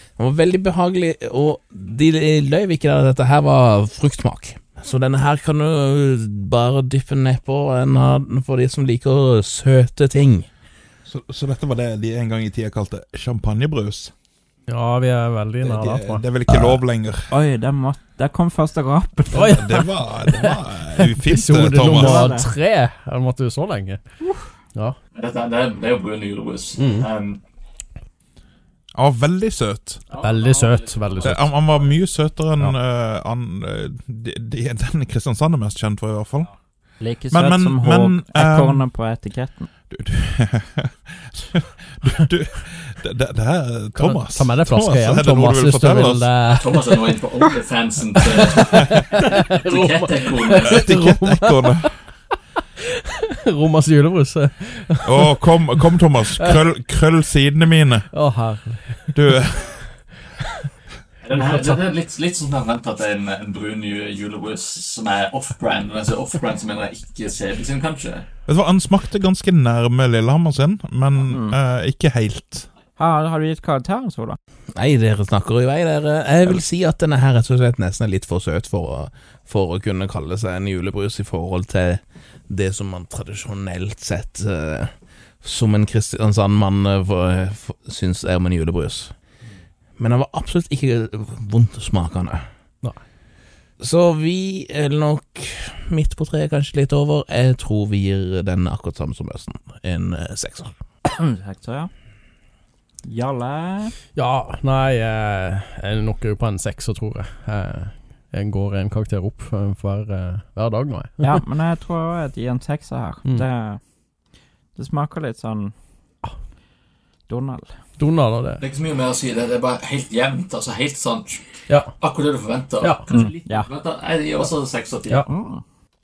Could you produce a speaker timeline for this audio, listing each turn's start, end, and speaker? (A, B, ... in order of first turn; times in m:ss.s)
0:00.2-0:10.5 A
0:11.1-0:14.1 B
0:14.7-0:16.8 C
0:15.6-0:17.3 B
0:17.3-0:19.6 D
0:19.3-0:22.2 B
0:19.3-0:24.0 C
0:21.8-0:22.5 D
0:25.2-0:27.4 E
0:26.8-0:27.1 C
0:28.9-0:30.1 B
0:30.1-0:31.7 E
0:30.2-0:31.5 C
0:31.2-0:36.5 B
0:37.0-0:39.7 D
0:37.3-0:38.8 B
0:39.9-0:46.4 B
0:44.0-0:47.2 C
0:46.6-0:50.9 E
0:48.2-0:51.9 C
0:48.7-0:49.0 B
0:50.6-0:51.9 B
0:52.8-0:56.6 C
0:55.0-0:58.0 B
0:58.1-0:59.4 C
0:59.1-0:59.9 B
1:01.2-1:08.3 E
1:08.5-1:12.7 B
1:11.3-1:11.6 D
1:13.0-1:14.4 D
1:14.7-1:24.9 A
1:25.4-1:29.1 A
1:30.0-1:32.4 A
1:33.8-1:40.7 A
1:41.0-1:41.9 D
1:43.0-1:43.9 D
1:44.2-1:51.4 C
1:51.2-1:53.8 D
1:54.7-1:55.7 D
1:57.3-1:57.7 D
1:58.0-1:58.6 C
1:58.6-2:01.4 E
2:02.0-2:05.2 E
2:02.8-2:03.1 C
2:03.1-2:03.7 D
2:05.3-2:05.6 D